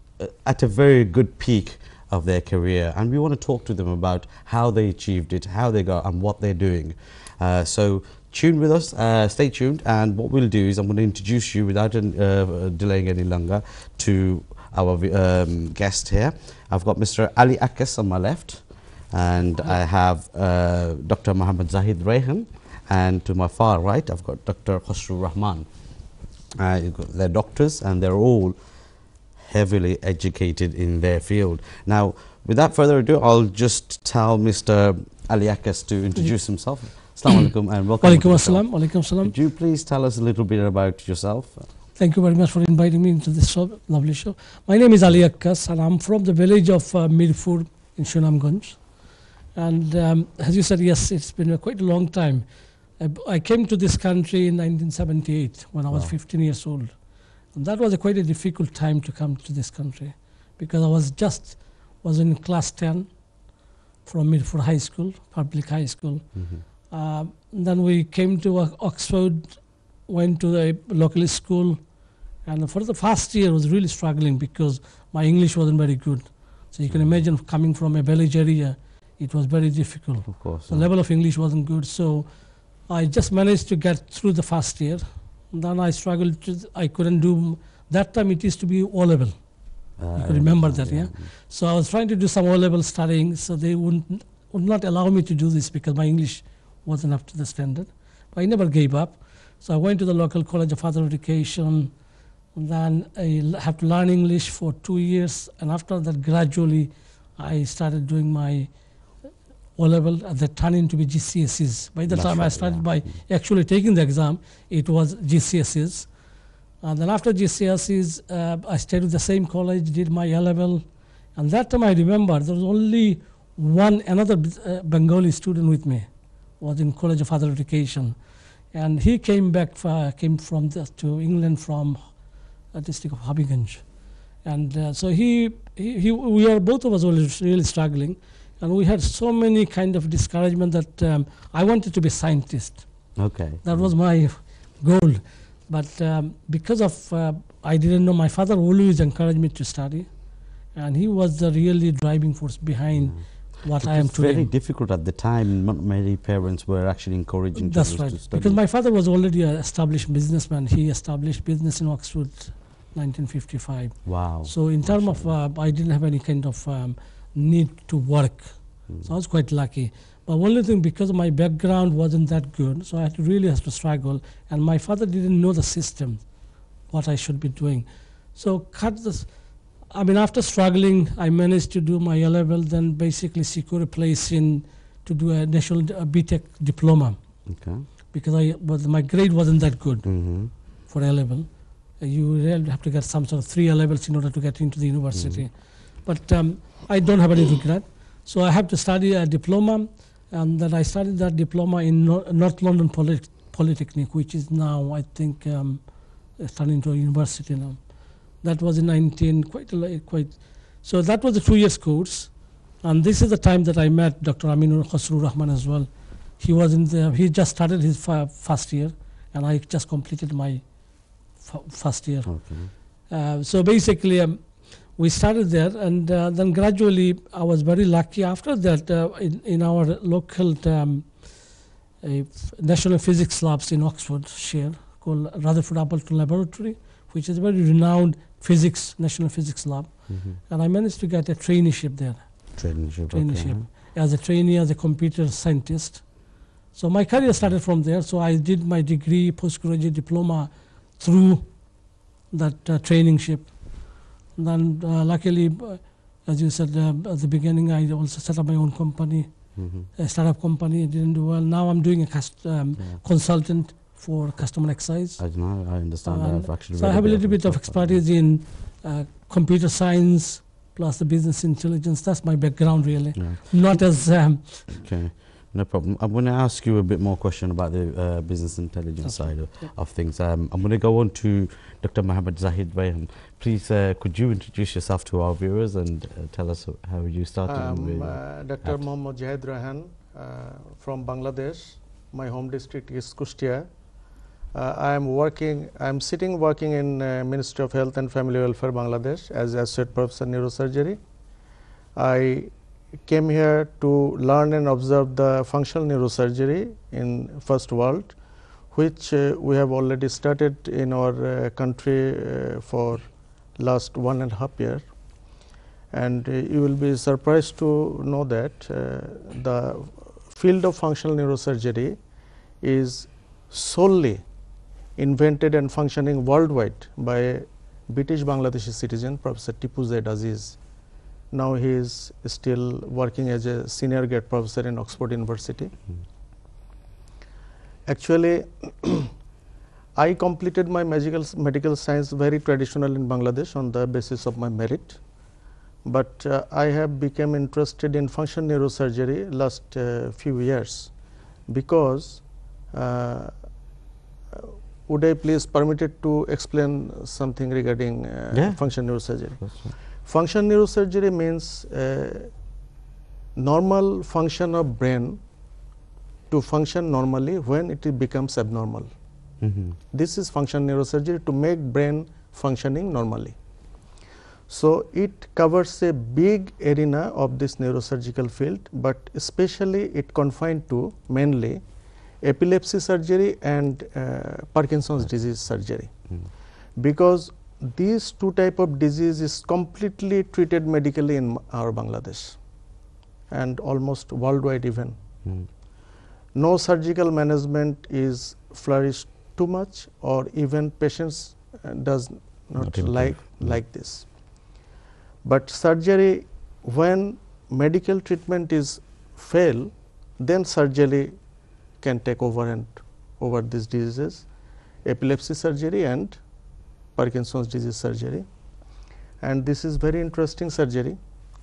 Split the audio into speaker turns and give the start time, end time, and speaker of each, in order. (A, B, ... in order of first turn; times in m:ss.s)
0:00.2-0:25.7 A
0:26.6-0:41.7 A
0:36.1-0:39.3 B
0:41.9-1:48.8 B
0:55.9-0:56.1 A
1:06.3-1:06.6 A
1:16.9-1:17.2 A
1:20.2-1:20.9 A
1:30.0-1:31.3 A
1:49.8-1:56.2 B
1:52.1-1:53.3 A
1:56.8-2:34.5 B
2:23.2-2:23.9 A
2:32.9-2:38.6 A
2:37.5-4:34.8 B
2:44.0-2:45.4 A
2:48.9-2:49.1 A
3:07.5-3:07.9 A
3:10.0-3:10.5 A
3:15.1-3:15.5 A
3:42.2-3:42.7 A
4:00.1-4:00.4 A
4:02.5-4:03.7 A
4:19.6-4:19.9 A
4:22.8-4:23.0 A
4:25.2-4:28.0 A
4:33.2-4:33.8 A
4:34.7-4:48.8 A
4:39.0-4:39.7 B
4:47.4-4:53.8 C
4:54.5-5:01.0 C
5:01.9-5:15.4 C
5:15.9-5:24.2 C
5:25.0-5:30.6 C
5:31.3-5:35.7 C
5:37.8-5:39.1 C
5:39.9-5:53.7 C
5:54.3-6:02.4 C
5:58.3-5:59.8 A
6:03.4-6:05.2 C
6:06.3-6:08.9 C
6:09.4-6:09.8 A
6:09.9-6:13.4 C
6:14.5-6:21.6 C
6:22.2-6:32.7 C
6:25.0-6:25.5 A
6:33.3-6:35.0 C
6:35.2-6:35.6 A
6:36.3-6:44.5 C
6:42.6-6:43.6 A
6:45.2-6:56.2 C
6:56.9-7:01.0 C